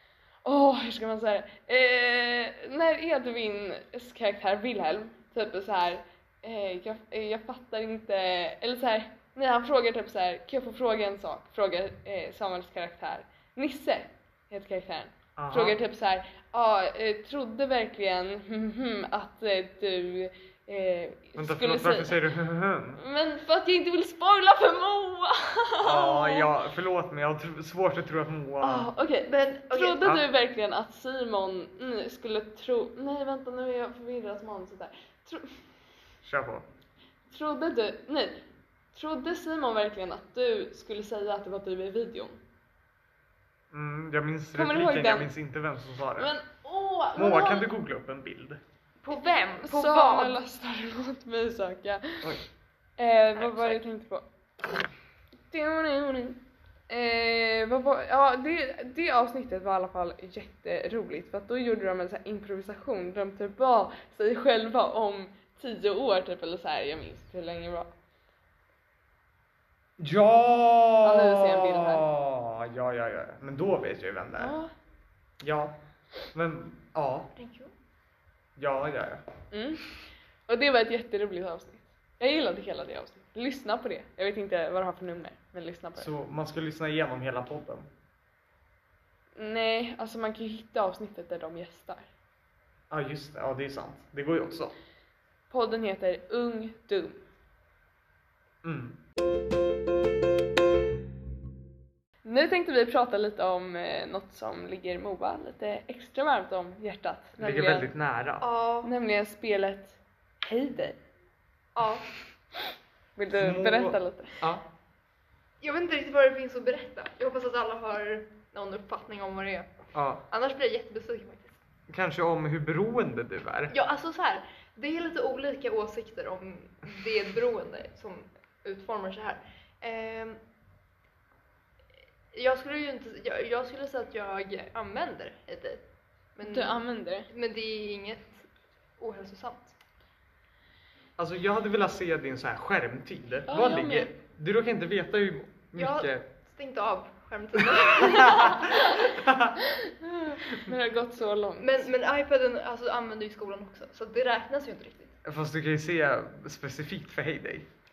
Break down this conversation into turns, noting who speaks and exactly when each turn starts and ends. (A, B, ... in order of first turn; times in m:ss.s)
0:00.4-0:22.2 A
0:15.4-0:15.8 B
0:21.4-0:23.0 B
0:23.0-0:26.5 A
0:25.8-0:28.9 B
0:28.6-0:35.6 A
0:29.2-0:30.0 C
0:36.2-0:36.6 B
0:37.3-0:38.4 A
0:38.9-0:42.4 A
0:43.7-0:46.3 B
0:44.5-0:45.3 A
0:46.2-0:47.7 A
0:47.1-0:48.6 B
0:49.0-0:50.4 C
0:49.1-0:52.4 A
0:53.0-0:54.2 A
0:53.4-0:53.8 C
0:55.5-1:07.9 A
1:10.0-1:14.5 B
1:11.0-1:12.1 A
1:14.4-1:14.7 A
1:15.4-1:15.8 B
1:16.3-1:17.3 B
1:17.4-1:17.7 C
1:18.6-1:19.2 B
1:19.5-1:19.9 A
1:20.5-1:26.1 A
1:26.0-1:27.9 B
1:29.4-1:32.1 A
1:32.9-1:34.7 B
1:35.5-1:37.2 A
1:38.6-1:39.0 B
1:42.2-1:47.9 A
1:47.4-1:48.5 B
1:48.4-1:48.9 C
1:48.8-1:51.0 A
1:51.7-1:52.1 C
1:53.2-1:54.4 A
1:53.3-1:54.6 B
1:55.6-2:01.6 C
1:59.9-2:00.2 B
2:01.9-2:03.7 B
2:03.7-2:10.4 C
2:12.3-2:15.8 C
2:16.3-2:18.5 C
2:16.4-2:17.3 A
2:19.0-2:19.8 C
2:21.2-2:26.2 B
2:23.5-2:24.1 A
2:25.7-2:29.2 C
2:27.8-2:29.6 B
2:29.8-2:31.9 A
2:31.6-2:35.2 C
2:35.2-2:37.7 B